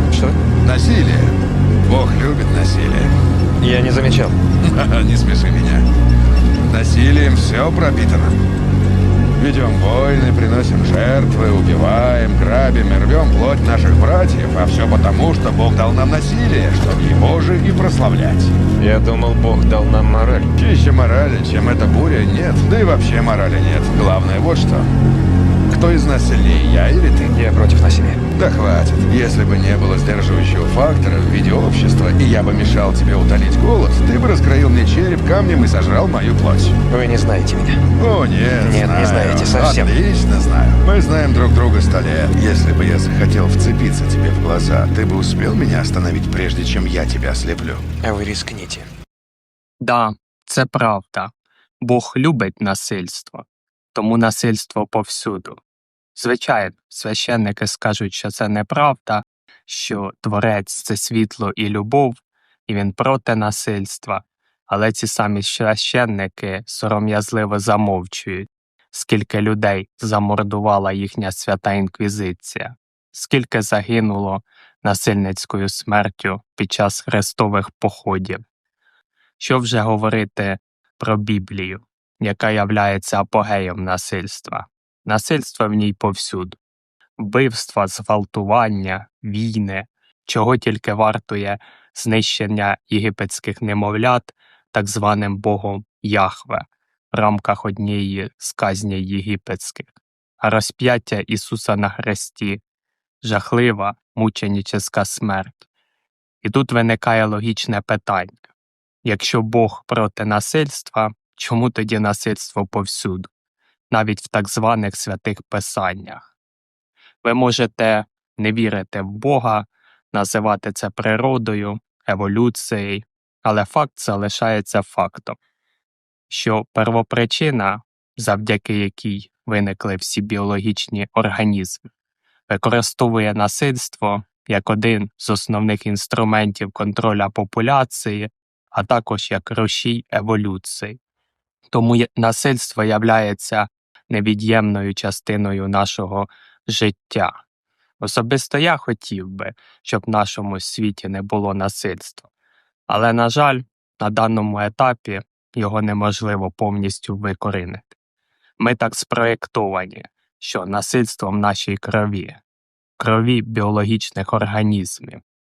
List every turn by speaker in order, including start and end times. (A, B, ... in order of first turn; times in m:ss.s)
0:00.1-0:00.4 A
0:00.6-0:03.1 B
0:03.6-0:04.4 A
0:04.6-0:05.9 B
0:06.7-0:08.4 B
0:09.4-0:18.6 B
0:18.8-0:20.5 A
0:20.5-0:24.9 B
0:25.7-0:27.3 B
0:27.3-0:28.2 A
0:28.3-0:36.8 B
0:36.9-0:37.8 A
0:38.0-0:47.8 B
0:38.6-0:39.9 A
0:48.0-0:48.8 A
0:49.8-0:55.6 C
0:56.1-1:18.4 C
1:19.4-1:26.6 C
1:27.2-1:42.6 C
1:43.2-1:45.6 C
1:46.4-1:48.4 C
1:49.0-1:53.3 C
1:53.9-1:56.3 C
1:57.2-2:05.4 C
2:06.3-2:11.9 C
2:12.5-2:21.0 C
2:21.7-2:27.4 C
2:28.0-2:32.3 C
2:32.9-2:37.9 C
2:38.6-2:42.4 C
2:43.0-2:45.2 C